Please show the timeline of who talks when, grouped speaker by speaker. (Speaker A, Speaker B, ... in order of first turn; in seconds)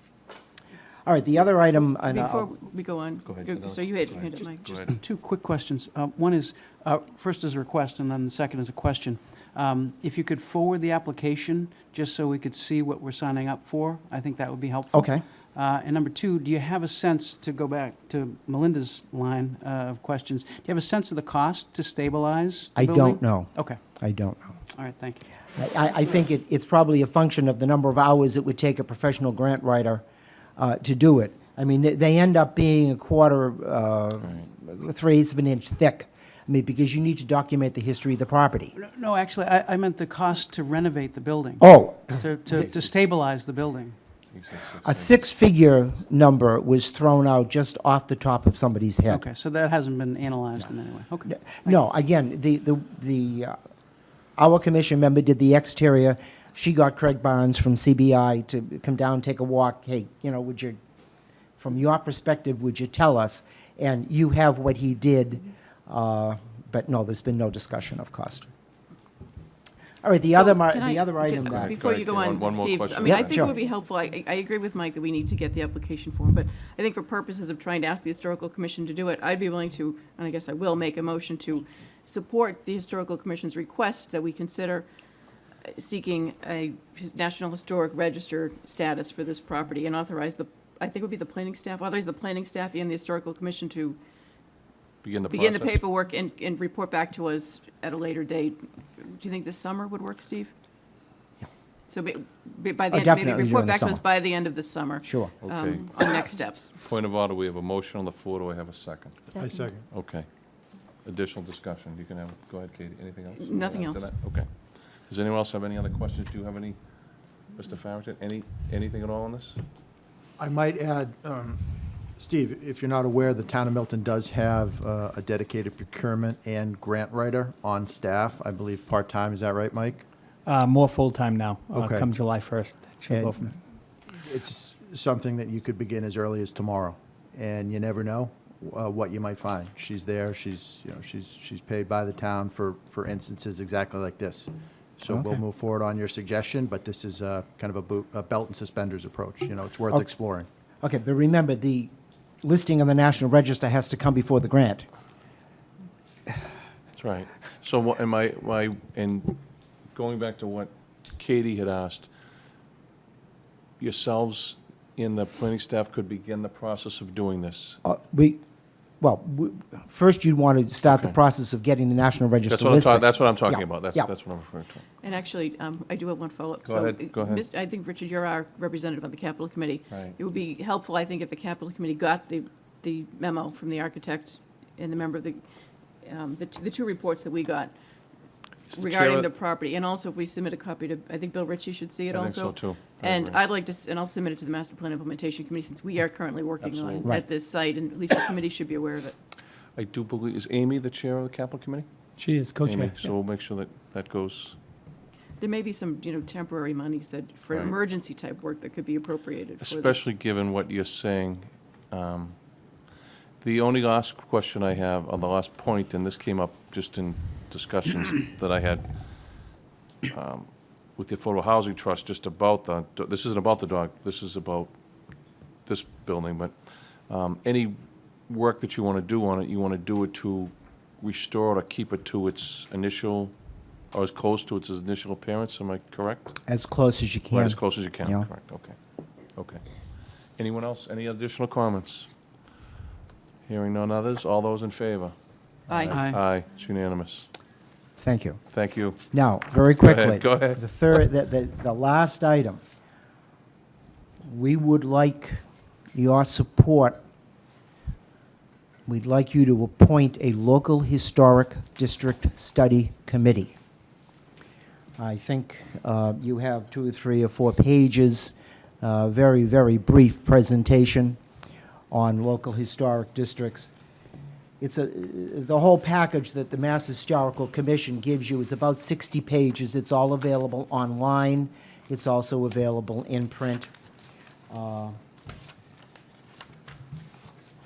Speaker A: 1.1-2.5, 14.9-15.2, 22.7-24.6, 25.6-30.0, 30.6-38.7, 41.6-42.2, 44.8-49.2, 51.2-53.6, 54.4-60.8, 61.6-68.5, 70.0-71.8, 73.0-73.5, 102.9-104.0, 105.0-105.3, 145.1-145.4, 150.8-151.9, 152.4-154.9, 167.8-168.4, 169.0-174.1, 236.5-238.3, 248.0-248.4, 249.1-252.6, 254.2-255.4, 255.9-257.0, 258.9-263.5, 265.0-271.2, 271.9-273.7, 274.6-283.7, 284.5-285.0
Speaker B: 2.1-4.9, 70.3-84.8, 85.7-94.0, 95.3-100.5, 101.9-106.7, 113.4-114.1, 175.0-185.4, 186.0-187.7, 188.7-199.1, 205.4-210.1, 245.7-246.1
Speaker C: 3.2-5.0, 44.3-45.2, 71.4-73.5, 95.0-95.8, 105.4-106.0, 106.8-109.3, 109.9-110.3, 111.0-116.8, 117.5-119.6, 156.9-159.4, 159.9-162.1, 163.8-167.8, 170.8-171.2, 172.5-174.8, 176.6-177.4, 179.9-180.2, 188.7-189.3, 192.1-193.4, 196.6-197.2, 199.8-201.8, 202.6-204.6, 209.6-212.4, 213.4-219.5, 220.1-224.7, 225.7-226.5, 227.1-227.8, 228.3-233.3, 233.9-236.4, 237.3-238.8, 239.3-239.6, 240.4-242.1, 243.5-245.1, 245.8-247.3, 248.5-249.1, 249.8-250.6
Speaker D: 4.9-24.1, 24.7-25.2, 38.7-44.0, 49.0-51.8, 245.9-246.2
Speaker E: 109.4-109.8, 120.4-121.6, 122.2-130.0, 131.7-132.1, 134.1-150.5
Speaker F: 130.4-133.6, 202.2-203.0